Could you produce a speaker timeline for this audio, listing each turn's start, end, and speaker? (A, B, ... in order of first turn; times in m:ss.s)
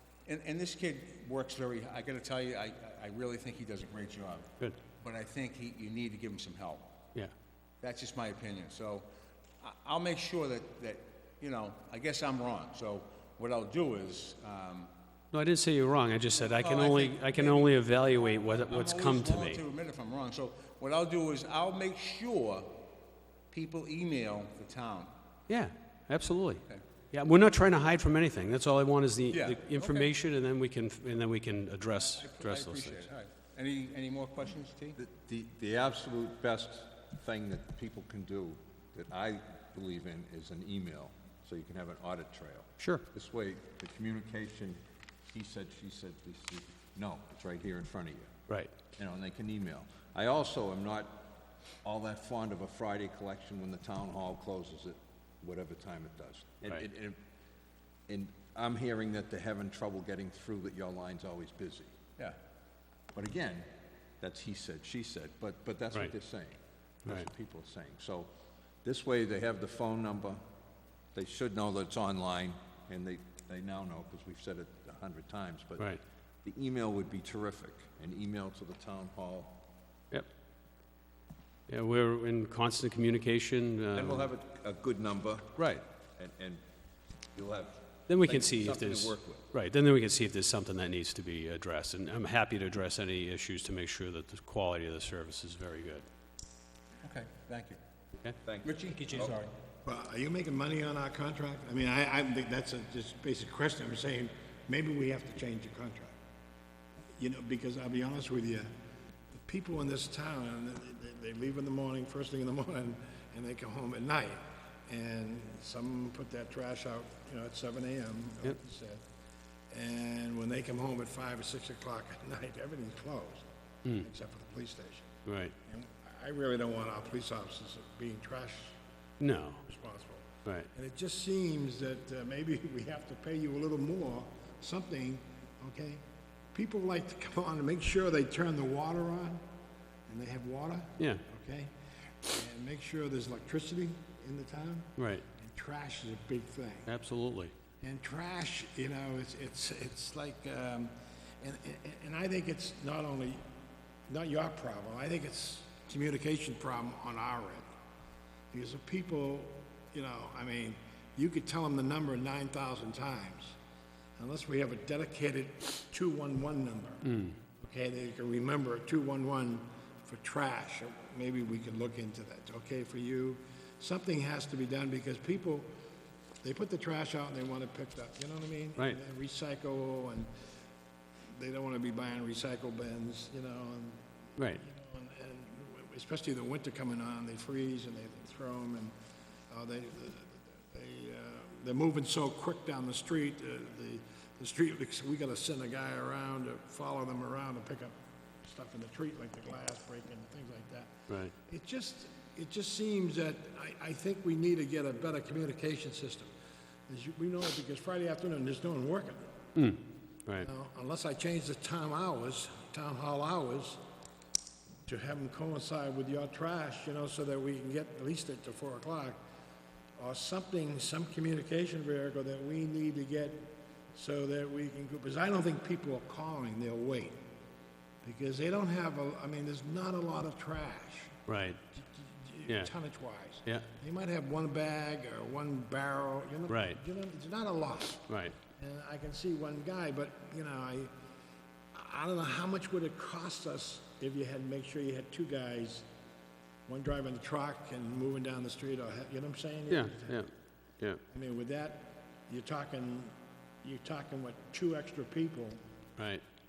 0:00.2-0:06.9 A
0:07.8-0:09.0 A
0:09.6-0:14.9 A
0:15.3-0:19.6 B
0:16.3-0:22.7 A
0:23.5-0:25.1 A
0:25.5-0:33.0 B
0:29.3-0:30.1 A
0:31.9-0:35.0 A
0:35.0-0:48.3 C
0:42.8-0:43.0 B
0:48.9-0:51.3 C
0:51.8-0:57.2 C
0:58.1-1:01.9 C
1:03.1-1:03.7 C
1:04.2-1:08.3 C
1:08.8-1:10.4 C
1:11.1-1:19.6 C
1:21.7-1:24.3 B
1:23.9-1:25.6 C
1:25.6-1:25.8 B
1:26.2-1:26.6 C
1:27.3-1:29.5 C
1:28.1-1:36.0 B
1:37.0-1:37.8 A
1:38.4-1:39.4 C
1:38.6-1:39.5 A
1:39.8-1:46.1 D
1:47.2-1:48.7 D
1:49.3-1:59.0 D
1:59.7-2:05.1 D
2:05.2-2:05.5 B
2:05.6-2:08.8 D
2:09.2-2:09.6 B
2:09.6-2:16.0 D
2:16.5-2:19.4 D
2:20.1-2:21.7 D
2:22.2-2:26.9 D
2:25.0-2:25.2 B
2:26.8-2:27.5 B
2:27.8-2:33.4 D
2:34.1-2:37.7 D
2:38.5-2:43.6 D
2:44.2-2:47.0 D
2:47.0-2:47.3 B
2:47.6-2:55.7 D
2:56.4-3:00.3 D
3:01.3-3:08.9 D
3:09.5-3:26.3 D
3:26.9-3:29.3 D
3:29.5-3:30.4 B
3:30.4-3:33.8 D
3:34.8-3:39.2 D
3:40.0-3:47.2 D
3:48.0-3:51.2 D
3:51.2-3:51.6 B
3:51.7-4:00.9 D
3:56.5-3:56.8 B
3:58.1-3:58.3 B
4:01.7-4:05.8 D
4:06.7-4:10.2 D
4:09.7-4:11.0 B
4:11.1-4:15.6 D
4:16.0-4:16.2 B